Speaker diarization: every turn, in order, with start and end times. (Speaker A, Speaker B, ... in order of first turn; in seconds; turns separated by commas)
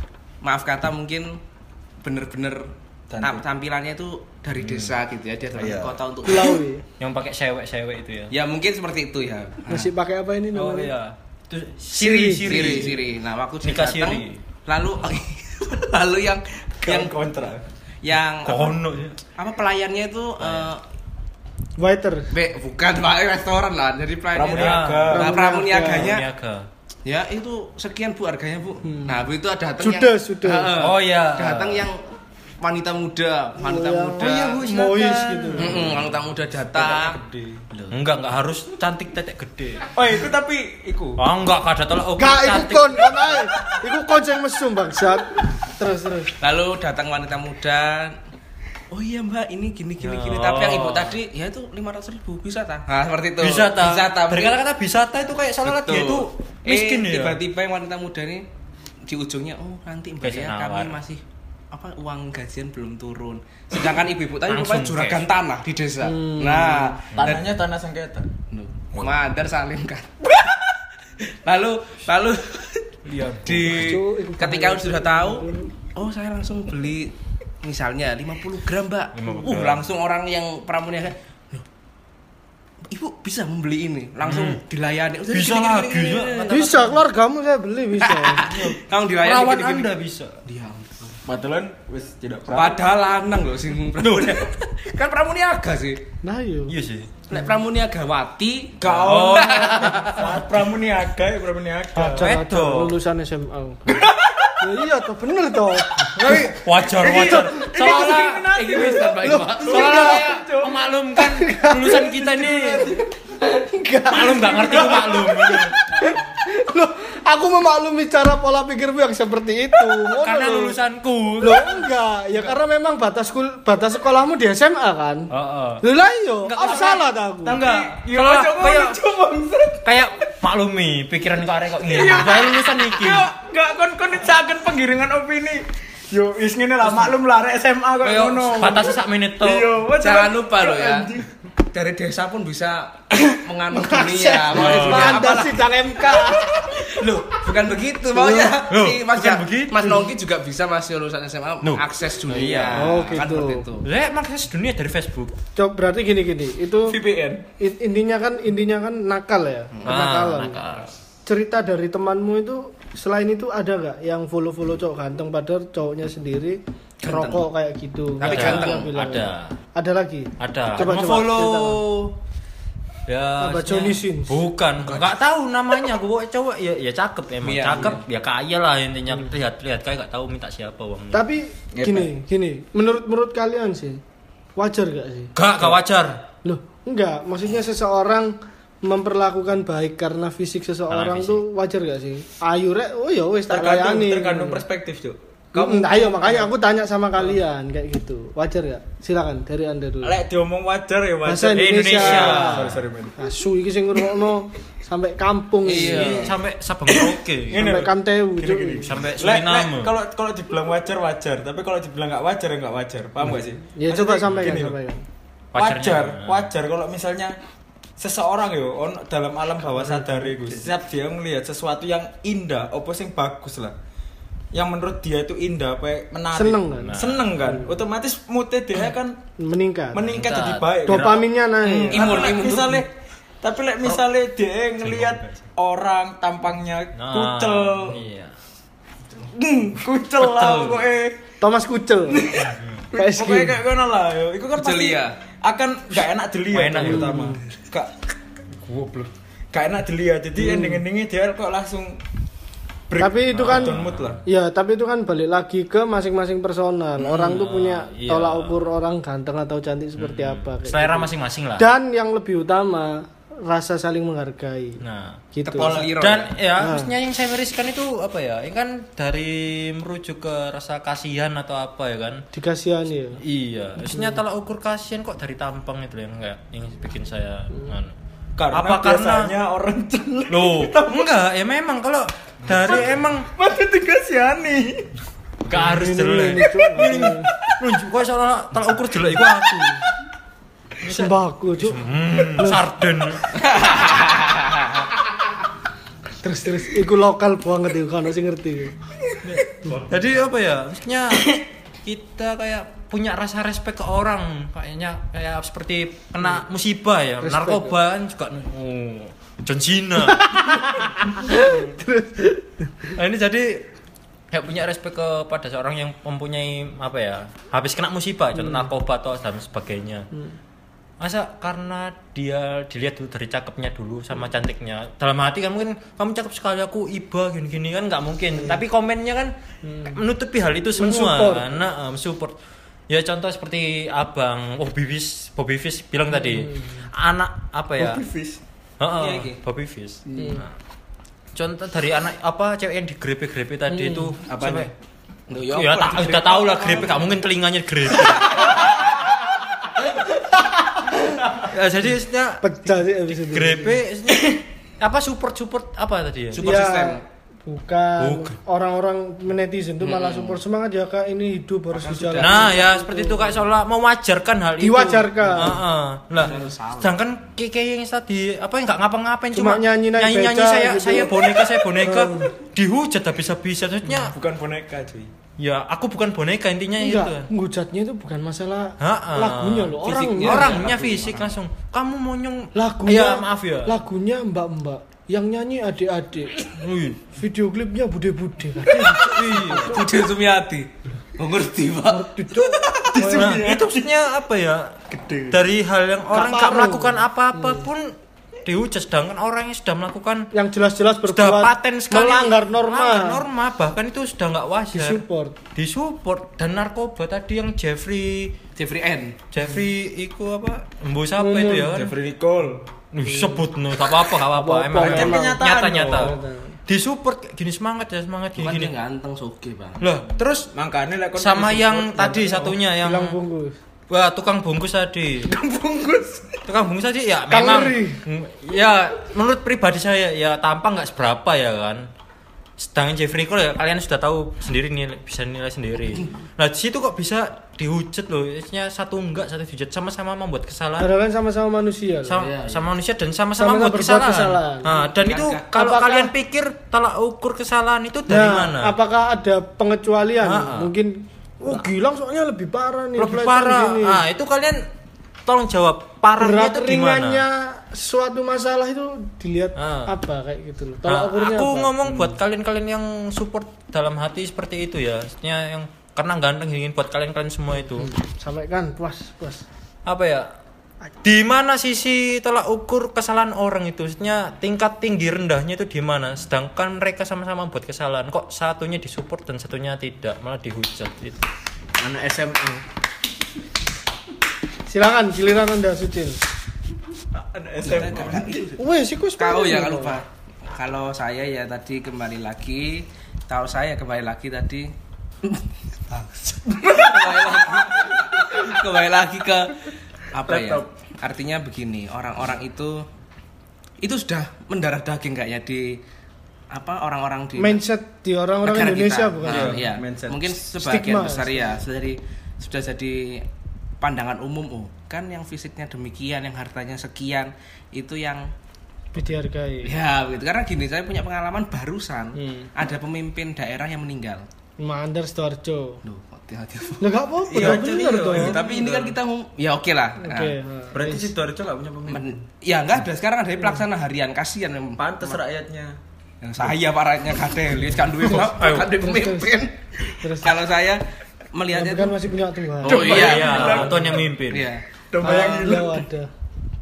Speaker A: 0.4-1.4, Speaker A: 2.0-6.6, Speaker B: 3.1-3.4, Speaker C: 4.6-4.9, Speaker B: 5.6-6.0, Speaker D: 6.2-6.8, Speaker C: 7.0-8.3, Speaker A: 8.3-9.9, Speaker D: 9.7-10.9, Speaker C: 10.5-13.0, Speaker D: 11.9-12.9, Speaker A: 12.4-17.1, Speaker C: 13.6-14.4, Speaker B: 16.8-17.6, Speaker A: 18.0-18.8, Speaker C: 18.4-19.2, Speaker A: 19.3-20.8, Speaker C: 20.4-20.7, Speaker D: 21.8-22.3, Speaker A: 22.3-26.3, Speaker B: 24.3-25.4, Speaker C: 24.5-26.7, Speaker D: 25.1-26.2, Speaker A: 27.0-32.0, Speaker D: 28.8-29.2, Speaker D: 29.8-30.7, Speaker C: 30.7-31.9, Speaker A: 32.6-34.6, Speaker D: 33.6-35.8, Speaker C: 34.2-36.1, Speaker A: 35.5-37.2, Speaker B: 35.7-36.1, Speaker B: 36.7-37.6, Speaker C: 37.9-39.9, Speaker B: 39.9-41.2, Speaker C: 41.2-43.5, Speaker D: 42.2-46.3, Speaker A: 46.4-48.2, Speaker A: 48.9-54.6, Speaker C: 50.0-51.1, Speaker C: 53.4-57.4, Speaker A: 55.6-58.4, Speaker A: 59.0-67.4, Speaker C: 60.2-61.0, Speaker C: 64.5-65.2, Speaker D: 66.0-67.0, Speaker C: 67.1-67.4, Speaker B: 67.2-68.3, Speaker A: 68.5-81.6, Speaker C: 73.0-74.0, Speaker D: 73.7-75.7, Speaker C: 79.1-79.9, Speaker A: 82.9-86.7, Speaker C: 84.2-84.6, Speaker C: 85.3-87.0, Speaker D: 86.5-88.5, Speaker A: 88.0-89.9, Speaker C: 88.5-90.3, Speaker A: 90.5-91.2, Speaker B: 91.2-92.8, Speaker A: 92.5-96.0, Speaker D: 96.2-96.7, Speaker C: 96.7-97.1, Speaker A: 97.3-100.3, Speaker B: 98.8-102.4, Speaker C: 98.8-100.4, Speaker D: 101.9-104.1, Speaker C: 102.1-103.0, Speaker B: 103.9-104.5, Speaker D: 104.6-106.4, Speaker C: 106.1-108.6, Speaker B: 106.9-110.8, Speaker D: 107.2-107.7, Speaker A: 107.8-110.1, Speaker D: 109.0-110.2, Speaker C: 109.6-112.9, Speaker D: 111.2-120.8, Speaker B: 112.3-113.1, Speaker C: 114.1-115.8, Speaker C: 120.1-121.9, Speaker D: 121.4-125.3, Speaker C: 125.3-125.8, Speaker D: 125.8-127.6, Speaker C: 126.4-129.0, Speaker B: 127.5-130.0, Speaker C: 129.8-133.3, Speaker B: 131.8-141.3, Speaker C: 138.0-139.7, Speaker A: 140.0-141.1, Speaker A: 141.7-153.9, Speaker D: 143.7-147.0, Speaker C: 144.5-145.4, Speaker D: 148.1-148.6, Speaker C: 148.7-150.0, Speaker C: 151.6-153.0, Speaker D: 152.7-153.7, Speaker C: 153.8-155.3, Speaker D: 155.6-157.0, Speaker B: 156.9-157.4, Speaker D: 157.6-160.6, Speaker C: 159.8-160.9, Speaker D: 161.2-171.8, Speaker A: 167.0-167.5, Speaker A: 168.2-168.9, Speaker C: 168.2-169.6, Speaker C: 170.4-172.1, Speaker C: 173.1-181.2, Speaker D: 173.4-174.4, Speaker A: 177.4-178.0, Speaker D: 181.1-184.0, Speaker B: 181.7-182.1, Speaker D: 184.6-185.3, Speaker C: 185.3-186.2, Speaker D: 186.4-194.6, Speaker C: 190.9-191.4, Speaker B: 193.5-196.5, Speaker D: 195.5-200.2, Speaker B: 200.0-203.2, Speaker D: 201.2-202.7, Speaker C: 201.5-202.8, Speaker D: 203.2-206.3, Speaker A: 205.6-206.4, Speaker C: 205.7-207.7, Speaker B: 207.5-214.8, Speaker D: 207.5-208.9, Speaker C: 208.8-209.9, Speaker D: 213.7-215.0, Speaker C: 214.3-214.6, Speaker C: 215.5-216.5, Speaker B: 215.5-217.3, Speaker B: 218.0-223.7, Speaker B: 224.5-229.2, Speaker D: 226.3-227.7, Speaker C: 226.8-227.4, Speaker D: 229.4-230.0, Speaker B: 229.9-232.9, Speaker C: 230.0-231.3, Speaker D: 230.8-232.2, Speaker A: 231.9-232.8, Speaker C: 231.9-232.3, Speaker B: 233.4-238.0, Speaker C: 234.8-235.4, Speaker C: 236.9-238.3, Speaker B: 239.2-241.2, Speaker C: 240.2-240.8, Speaker D: 241.4-242.3, Speaker B: 242.1-247.9, Speaker C: 242.5-242.8, Speaker D: 242.9-243.6, Speaker A: 244.6-245.1, Speaker C: 246.5-247.4, Speaker D: 246.8-247.4, Speaker B: 248.6-252.0, Speaker D: 250.4-250.8, Speaker B: 252.9-254.2, Speaker D: 253.0-264.8, Speaker C: 253.3-254.2, Speaker C: 257.0-258.6, Speaker C: 260.0-261.7, Speaker C: 264.8-265.2, Speaker D: 265.3-265.9, Speaker A: 265.4-266.4, Speaker C: 265.7-272.2, Speaker D: 266.6-266.9, Speaker D: 272.3-273.2, Speaker C: 273.2-277.9, Speaker D: 273.9-274.2, Speaker B: 278.4-281.1, Speaker C: 278.5-279.3, Speaker C: 280.3-283.3, Speaker B: 282.5-284.9, Speaker C: 285.4-289.9, Speaker D: 285.5-287.3, Speaker C: 290.8-293.4, Speaker D: 290.8-292.6, Speaker A: 293.3-294.9, Speaker D: 296.2-298.8, Speaker C: 299.2-311.8, Speaker D: 307.2-307.8, Speaker D: 310.1-312.9, Speaker C: 312.9-313.6, Speaker C: 314.3-320.1, Speaker C: 321.0-332.4, Speaker D: 329.6-330.0, Speaker D: 330.7-331.6, Speaker C: 332.9-338.0, Speaker D: 336.2-336.9, Speaker B: 337.8-338.4, Speaker C: 338.8-340.5, Speaker A: 339.0-339.4, Speaker D: 340.1-340.4, Speaker C: 341.3-344.7, Speaker D: 343.7-344.1, Speaker A: 344.2-344.7, Speaker A: 345.3-347.1, Speaker C: 345.4-348.6, Speaker A: 348.0-348.7, Speaker C: 351.3-356.4, Speaker D: 352.4-353.8, Speaker A: 356.3-357.0, Speaker D: 356.4-363.4, Speaker C: 358.0-358.4, Speaker A: 359.8-360.4, Speaker A: 361.7-362.6, Speaker C: 362.2-374.1, Speaker D: 364.6-365.6, Speaker A: 366.1-366.9, Speaker D: 369.3-371.3, Speaker D: 371.8-372.3, Speaker B: 374.1-375.1, Speaker C: 375.4-377.3, Speaker D: 376.8-380.7, Speaker C: 378.8-383.7, Speaker A: 379.8-381.3, Speaker D: 382.5-386.4, Speaker C: 386.4-387.1, Speaker D: 387.1-389.9, Speaker C: 389.0-389.8, Speaker A: 389.4-393.0, Speaker D: 391.9-393.4, Speaker B: 392.9-393.7, Speaker C: 393.0-400.3, Speaker B: 394.9-395.4, Speaker D: 396.1-397.6, Speaker D: 400.3-403.2, Speaker C: 401.1-405.0, Speaker D: 404.7-405.4, Speaker C: 405.5-408.3, Speaker A: 408.6-409.2, Speaker C: 409.3-411.9, Speaker D: 411.2-411.8, Speaker B: 411.7-412.6, Speaker C: 412.9-418.7, Speaker D: 413.0-413.5, Speaker D: 414.3-416.6, Speaker B: 414.8-416.2, Speaker A: 418.4-419.9, Speaker C: 419.8-420.5, Speaker B: 420.5-422.5, Speaker C: 421.2-423.1, Speaker D: 422.3-423.6, Speaker C: 423.9-425.3, Speaker B: 425.3-426.2, Speaker C: 426.4-431.9, Speaker D: 427.3-428.0, Speaker C: 432.6-440.9, Speaker D: 440.8-442.4, Speaker C: 442.1-448.8, Speaker D: 443.4-444.7, Speaker A: 444.9-445.4, Speaker D: 445.5-446.1, Speaker D: 448.1-454.0, Speaker C: 450.2-450.7, Speaker C: 453.0-454.6, Speaker C: 455.2-457.2, Speaker D: 456.2-462.1, Speaker C: 459.6-459.9, Speaker C: 460.9-467.9, Speaker D: 467.5-469.4, Speaker C: 469.9-470.3, Speaker C: 471.0-481.2, Speaker B: 481.8-482.6, Speaker D: 484.7-486.2, Speaker B: 487.1-488.5, Speaker A: 487.6-488.6, Speaker D: 488.6-489.9, Speaker A: 489.2-502.9, Speaker B: 496.7-497.3, Speaker B: 500.3-500.7, Speaker A: 503.8-505.8, Speaker A: 506.5-507.6, Speaker D: 507.4-509.6, Speaker A: 508.4-513.3, Speaker C: 509.3-509.6, Speaker B: 509.3-510.3, Speaker D: 510.6-511.6, Speaker A: 513.8-518.3, Speaker D: 518.9-519.7, Speaker A: 519.6-524.3, Speaker D: 522.1-522.5, Speaker D: 524.6-525.8, Speaker A: 525.8-530.3, Speaker D: 526.8-528.4, Speaker B: 527.3-529.0, Speaker D: 530.0-531.1, Speaker B: 530.7-532.1, Speaker A: 531.9-535.2, Speaker B: 534.8-535.8, Speaker A: 536.2-542.0, Speaker C: 538.1-538.7, Speaker D: 538.8-539.4, Speaker D: 540.0-540.4, Speaker D: 541.5-543.0, Speaker A: 542.6-545.5, Speaker B: 542.6-544.0, Speaker C: 542.8-544.5, Speaker B: 544.9-545.8, Speaker D: 545.0-546.1